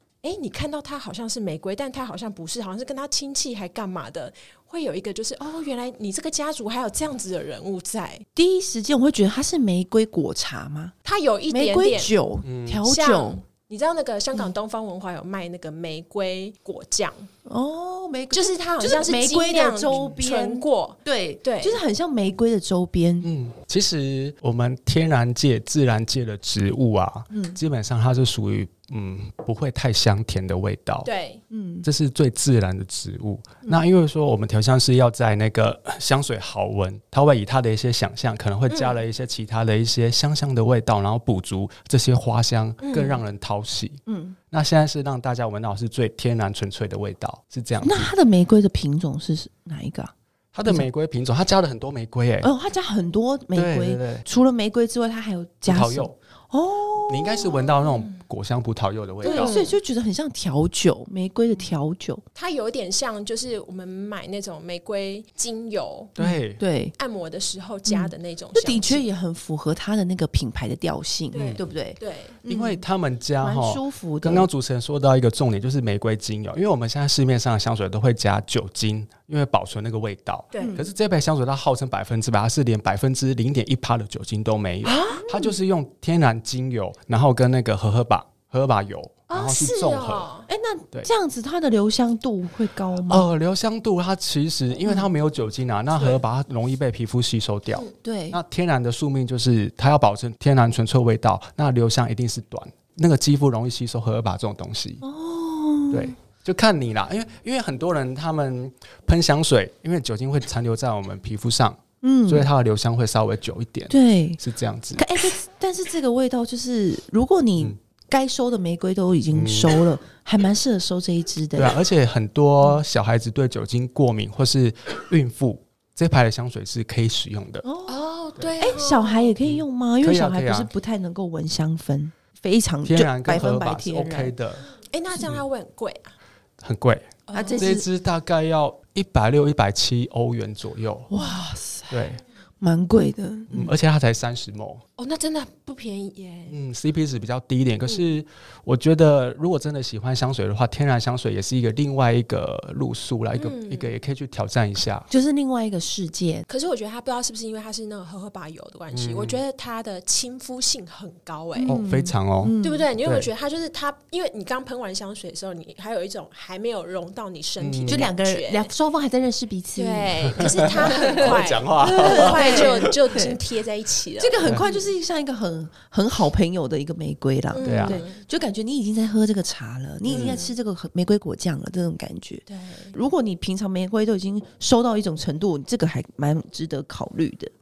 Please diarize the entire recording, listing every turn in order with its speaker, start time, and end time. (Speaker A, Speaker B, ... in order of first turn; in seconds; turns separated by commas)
Speaker A: 0.2-8.2, Speaker B: 8.4-10.9, Speaker A: 11.1-12.1, Speaker B: 11.5-13.4, Speaker C: 12.4-12.8, Speaker A: 12.8-17.3, Speaker B: 17.5-23.3, Speaker A: 18.3-21.8, Speaker C: 23.2-31.1, Speaker B: 27.3-27.6, Speaker A: 31.1-31.4, Speaker B: 31.5-31.9, Speaker C: 31.8-44.0, Speaker A: 38.7-39.0, Speaker A: 42.8-43.2, Speaker B: 44.1-44.4, Speaker C: 44.5-48.1, Speaker B: 47.8-50.1, Speaker C: 50.5-52.5, Speaker B: 52.4-57.6, Speaker C: 53.5-54.2, Speaker C: 55.7-56.1, Speaker C: 57.1-59.5, Speaker A: 59.2-59.8, Speaker B: 59.2-62.2, Speaker A: 62.4-66.1, Speaker C: 66.2-66.6, Speaker B: 66.2-66.9, Speaker A: 67.0-69.0, Speaker B: 67.9-72.8, Speaker A: 71.3-72.4, Speaker C: 71.3-71.6, Speaker C: 72.5-90.3, Speaker B: 73.4-74.5, Speaker A: 80.5-80.8, Speaker B: 80.6-80.9, Speaker A: 84.8-85.3, Speaker B: 85.2-85.5, Speaker A: 89.3-90.5, Speaker B: 90.5-93.3, Speaker C: 93.1-105.0, Speaker B: 98.0-98.4, Speaker B: 105.0-106.2, Speaker C: 105.9-115.1, Speaker B: 112.0-112.5, Speaker B: 113.9-114.4, Speaker B: 115.0-121.8, Speaker C: 119.3-119.8, Speaker C: 121.6-127.7, Speaker B: 127.6-128.0, Speaker A: 127.9-129.3, Speaker B: 128.6-134.3, Speaker C: 129.4-130.7, Speaker C: 132.8-134.6, Speaker A: 134.9-136.1, Speaker C: 136.6-141.1, Speaker A: 137.3-137.8, Speaker B: 137.3-137.9, Speaker B: 141.1-142.1, Speaker C: 141.9-142.2, Speaker B: 142.6-143.7, Speaker C: 143.5-144.8, Speaker A: 145.0-146.6, Speaker C: 146.5-155.1, Speaker A: 153.4-153.9, Speaker B: 155.1-156.5, Speaker A: 156.5-161.8, Speaker C: 158.9-159.4, Speaker B: 161.6-162.9, Speaker C: 161.7-163.3, Speaker A: 162.6-168.7, Speaker C: 167.6-168.1, Speaker B: 167.9-173.4, Speaker A: 169.8-174.9, Speaker C: 170.4-172.9, Speaker B: 174.2-187.5, Speaker A: 177.5-178.2, Speaker C: 177.6-178.0, Speaker C: 180.1-180.4, Speaker A: 180.1-180.5, Speaker A: 182.5-182.9